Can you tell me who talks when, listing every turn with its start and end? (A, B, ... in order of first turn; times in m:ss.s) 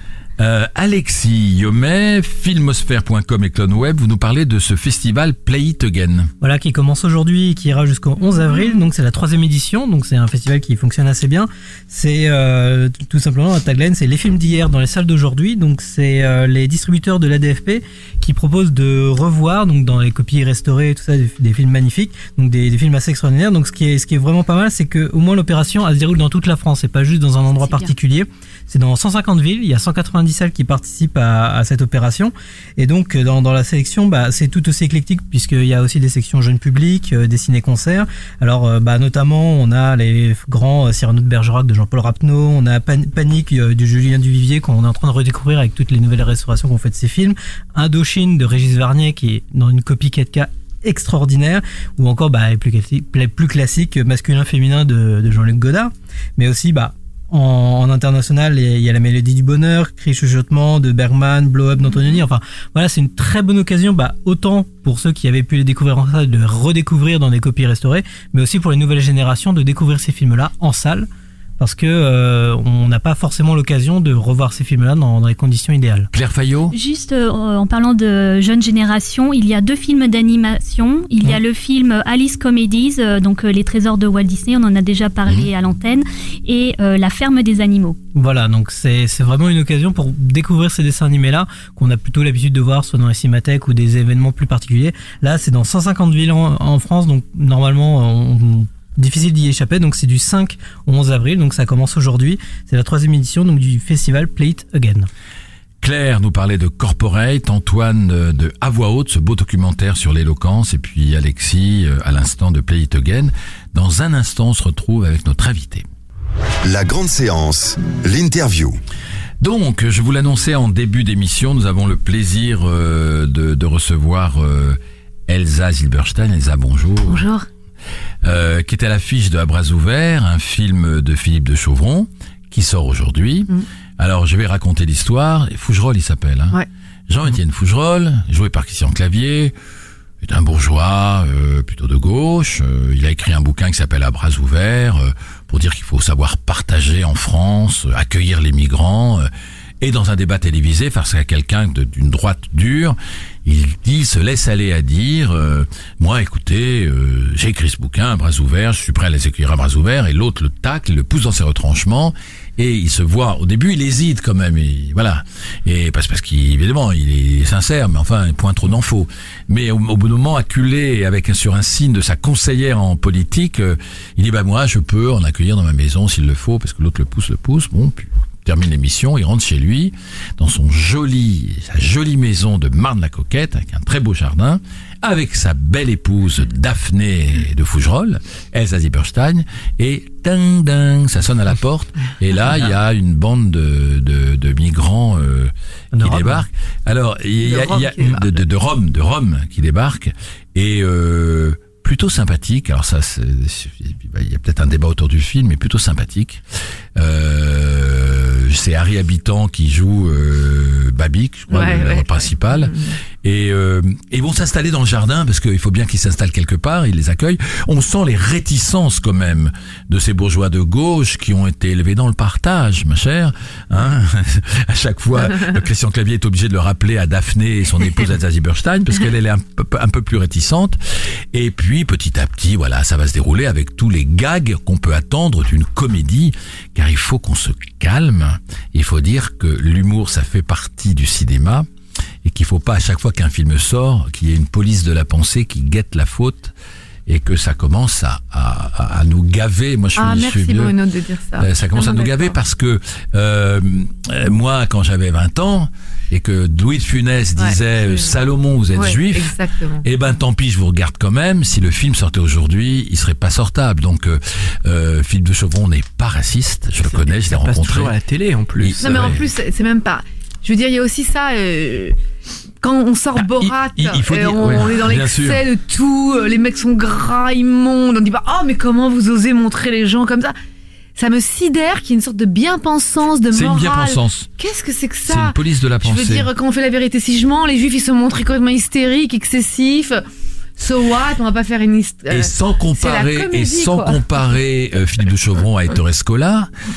0:00.4-0:06.3 A
0:06.4-1:11.1 B
1:11.6-1:16.1 B
1:16.1-1:16.7 A
1:16.7-1:28.0 C
1:28.2-1:45.1 B
1:45.8-1:55.8 A
1:56.6-1:58.8 D
1:59.4-2:07.3 A
2:07.0-2:07.4 E
2:08.2-2:19.5 A
2:20.2-2:29.3 A
2:29.8-3:26.4 A
3:15.9-3:16.5 B
3:17.4-3:18.4 E
3:27.0-3:50.8 A
3:31.5-3:32.9 E
3:51.3-4:01.7 A
4:02.2-4:06.5 A
4:07.1-4:10.8 A
4:10.0-4:12.4 E
4:11.4-4:27.9 A
4:17.4-4:18.1 E
4:18.7-4:19.8 E
4:26.8-4:29.2 F
4:28.6-4:29.2 A
4:28.8-4:32.0 E
4:32.6-4:40.3 E
4:33.2-4:35.4 A
4:41.0-4:50.0 E
4:43.3-4:44.3 A
4:45.0-4:46.3 A
4:50.6-4:54.0 E
4:52.1-4:56.5 A